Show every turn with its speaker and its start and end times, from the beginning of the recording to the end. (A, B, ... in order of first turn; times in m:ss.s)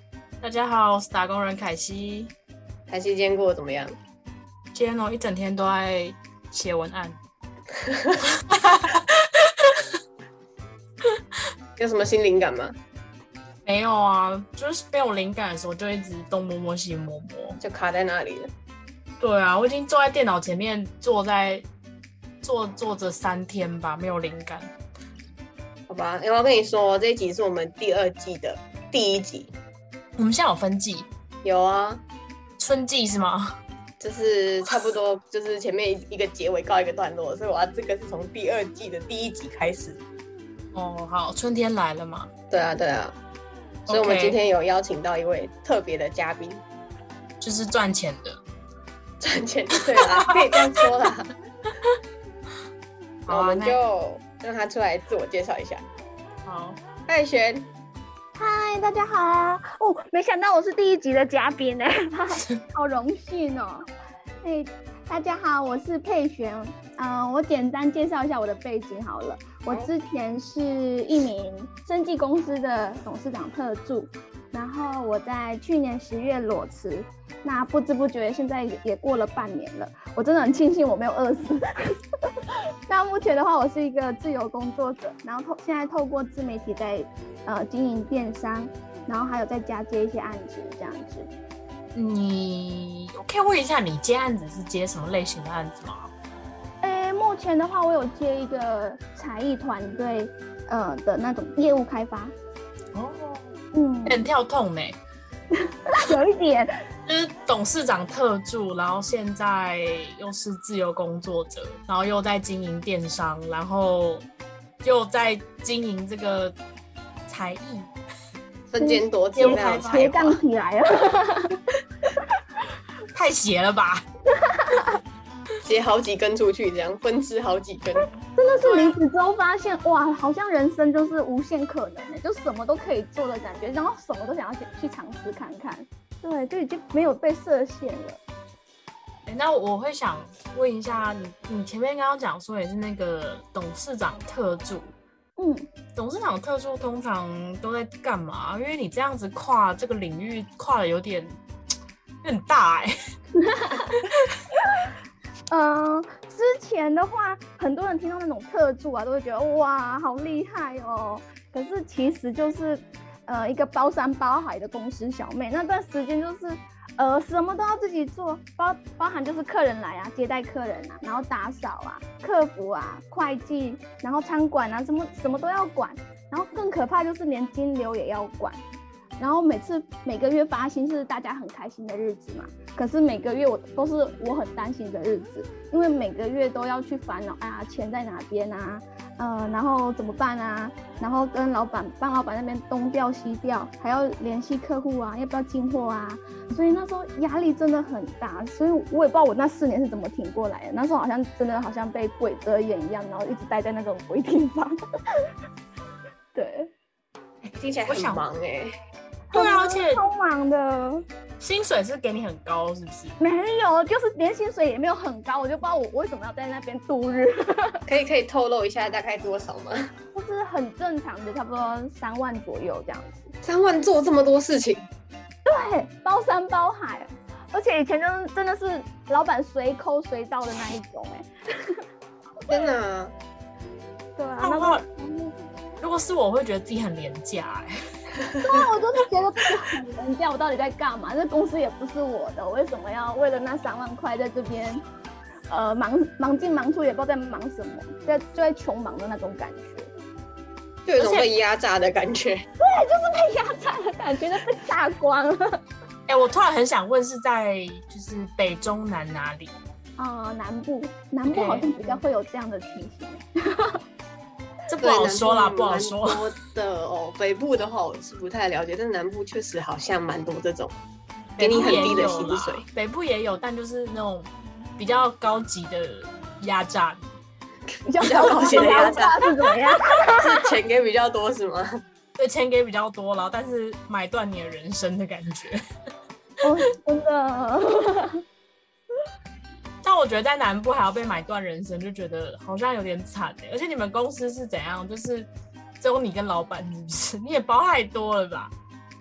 0:00.4-0:02.3 A
0:02.9-0:04.0 B
0:04.7-0:07.2 A
0:08.5-0:09.1 A
0:11.8-0:12.7 B
0:13.7-0:17.6 A
0:17.6-0:18.5 B
0:19.2-0:21.6 A
0:22.4-0:24.7 A
0:25.9-0:29.5 B
0:30.2-0:31.1 A
0:31.4-0:32.0 B
0:32.6-0:33.6 A
0:34.0-0:40.0 B
0:40.7-0:42.3 A
0:42.5-0:43.2 B
0:43.9-0:44.4 A
0:43.9-0:46.6 B
0:47.4-0:48.4 A
0:49.2-0:51.3 B
0:50.0-0:50.3 A
0:53.3-0:53.8 A
0:53.3-0:55.8 B
0:56.5-0:56.8 A
0:57.1-0:57.7 B
0:58.4-1:03.9 C
1:04.4-1:21.7 C
1:22.9-1:31.3 C
1:32.0-1:36.1 A
1:36.8-1:42.3 C
1:42.9-1:43.5 A
1:43.7-1:44.2 C
1:44.1-1:45.0 A
1:45.9-1:46.7 C
1:47.1-1:54.3 A
1:54.8-1:56.6 A
1:57.3-1:57.9 A
1:58.7-2:00.4 B
1:58.8-2:01.6 C
1:59.4-2:00.2 A
2:03.1-2:04.0 A
2:04.3-2:05.0 C
2:05.7-2:08.1 B
2:08.0-2:18.2 C
2:08.6-2:09.0 A
2:19.3-2:24.9 A
2:25.4-2:25.7 C
2:26.0-2:31.4 A
2:32.2-2:32.9 A
2:33.5-2:33.8 C
2:35.5-2:58.6 C
2:59.2-3:24.8 C
3:26.3-3:26.7 C
3:27.4-3:28.2 A
3:27.6-3:28.8 B
3:29.3-3:31.1 C
3:29.3-3:30.0 A
3:31.4-3:33.2 A
3:33.2-3:37.8 C
3:37.9-3:39.8 B
3:40.1-3:43.3 C
3:43.4-3:44.8 B
3:45.5-3:51.8 C
3:52.5-3:53.1 B
3:54.2-3:55.4 C
3:54.4-3:54.8 A
3:55.8-3:57.8 A
3:58.4-4:04.8 C
4:05.5-4:09.9 C
4:10.9-4:12.4 B
4:11.0-4:11.3 A
4:12.6-4:15.6 C
4:16.1-4:19.5 A
4:20.0-4:23.8 C
4:21.3-4:21.9 A
4:24.7-4:26.2 A
4:24.8-4:30.7 B
4:31.4-4:37.1 A
4:31.4-4:32.6 B
4:31.6-4:32.0 C
4:37.9-4:40.2 C
4:38.0-4:39.2 B
4:38.2-4:39.1 A
4:40.2-4:41.7 B
4:42.2-4:45.6 A
4:46.4-4:48.2 C
4:49.8-4:55.3 A
4:55.8-4:58.5 A